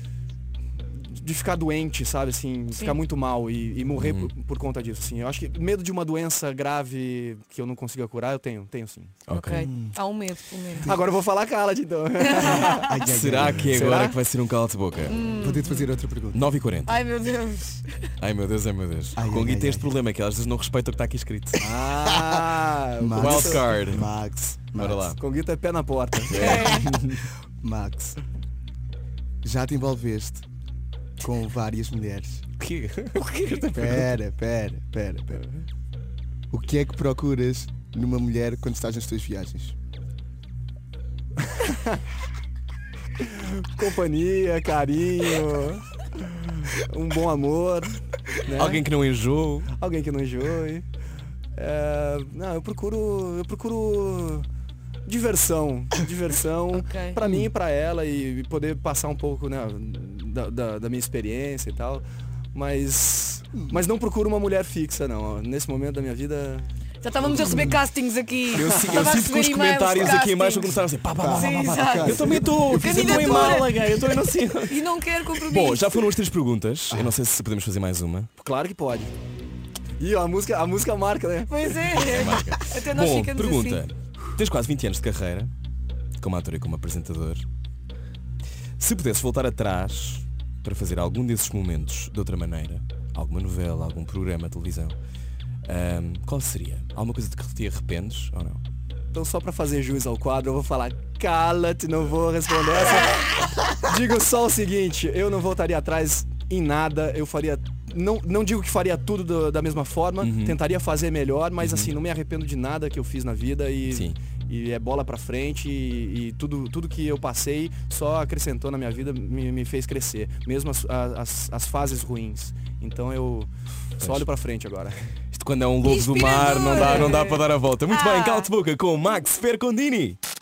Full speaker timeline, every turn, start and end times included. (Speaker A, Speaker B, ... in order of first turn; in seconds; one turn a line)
Speaker A: 0.9-9.2
Speaker B: 4.0-4.3
Speaker B: 9.3-9.7
Speaker C: 9.3-10.9
Speaker D: 9.7-10.0
Speaker D: 10.8-11.1
Speaker A: 10.8-12.9
Speaker C: 12.2-13.0
Speaker D: 12.7-13.8
Speaker B: 13.1-15.2
Speaker A: 13.7-14.2
Speaker C: 15.1-15.9
Speaker D: 15.4-16.5
Speaker B: 16.3-17.0
Speaker C: 16.9-18.1
Speaker B: 18.2-21.6
Speaker D: 19.2-20.0
Speaker A: 21.6-23.8
Speaker D: 22.0-22.5
Speaker D: 23.0-25.2
Speaker B: 23.1-24.1
Speaker B: 24.7-25.2
Speaker A: 25.2-26.9
Speaker B: 26.3-27.3
Speaker C: 26.4-26.9
Speaker D: 27.6-28.2
Speaker D: 29.4-30.4
Speaker D: 31.2-32.4
Speaker B: 32.6-34.2
Speaker D: 33.7-35.4
Speaker D: 36.5-39.8
Speaker A: 41.5-42.0
Speaker A: 43.2-48.9
Speaker B: 48.5-49.7
Speaker A: 49.7-50.9
Speaker A: 51.5-54.5
Speaker A: 55.1-66.7
Speaker C: 56.8-57.2
Speaker D: 57.2-57.5
Speaker C: 67.0-74.0
Speaker A: 67.2-67.8
Speaker D: 67.3-67.6
Speaker B: 68.5-78.3
Speaker A: 68.7-69.2
Speaker D: 71.2-73.5
Speaker C: 74.7-76.1
Speaker A: 78.4-79.2
Speaker A: 80.0-82.1
Speaker C: 81.5-83.8
Speaker B: 82.0-85.5
Speaker B: 86.2-87.5
Speaker B: 88.8-95.0
Speaker B: 95.7-98.6
Speaker A: 99.1-124.9
Speaker B: 110.2-110.6
Speaker B: 111.6-111.9
Speaker B: 113.9-114.2
Speaker B: 124.0-124.3
Speaker B: 125.3-130.2
Speaker C: 125.8-128.5